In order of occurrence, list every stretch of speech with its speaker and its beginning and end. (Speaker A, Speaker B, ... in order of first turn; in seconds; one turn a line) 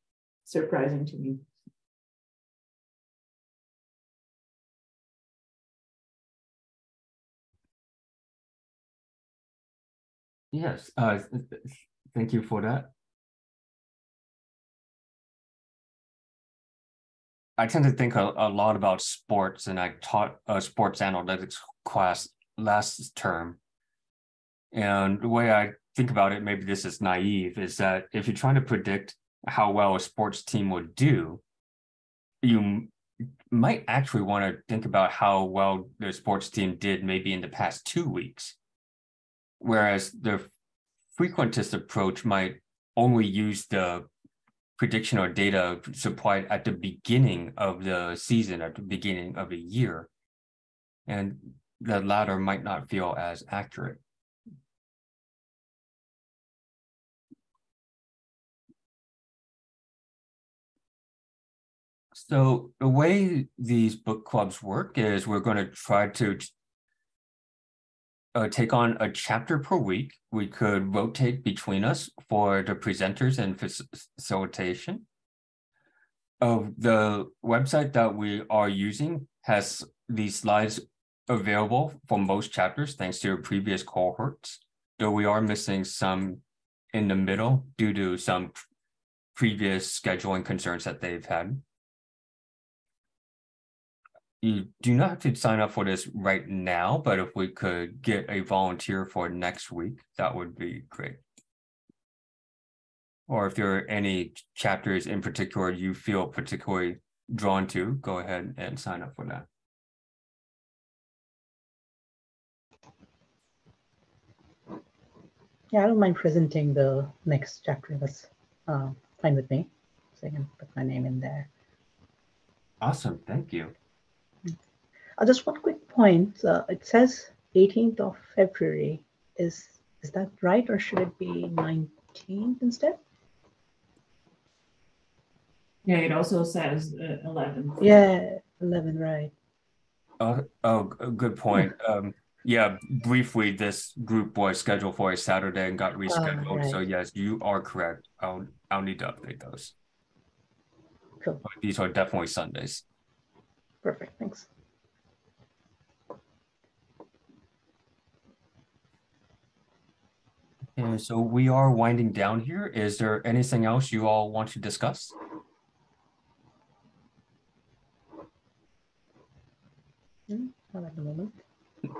Speaker A: 0.5-1.4
Speaker B: 10.5-12.9
Speaker B: 17.6-23.6
Speaker B: 24.7-31.4
Speaker B: 32.4-32.9
Speaker B: 33.5-38.6
Speaker B: 39.6-40.5
Speaker B: 41.1-44.1
Speaker B: 44.8-50.1
Speaker B: 51.1-54.0
Speaker B: 62.1-66.5
Speaker B: 68.3-75.1
Speaker B: 76.4-86.4
Speaker B: 86.9-88.6
Speaker B: 89.3-91.6
Speaker B: 94.4-101.2
Speaker B: 103.3-109.5
Speaker C: 115.7-121.5
Speaker B: 122.8-123.7
Speaker C: 125.2-133.0
Speaker A: 135.9-138.0
Speaker C: 137.8-139.3
Speaker B: 140.2-149.8
Speaker C: 146.1-146.8
Speaker B: 151.4-152.8
Speaker C: 153.8-154.5
Speaker B: 160.8-165.2
Speaker C: 170.3-171.4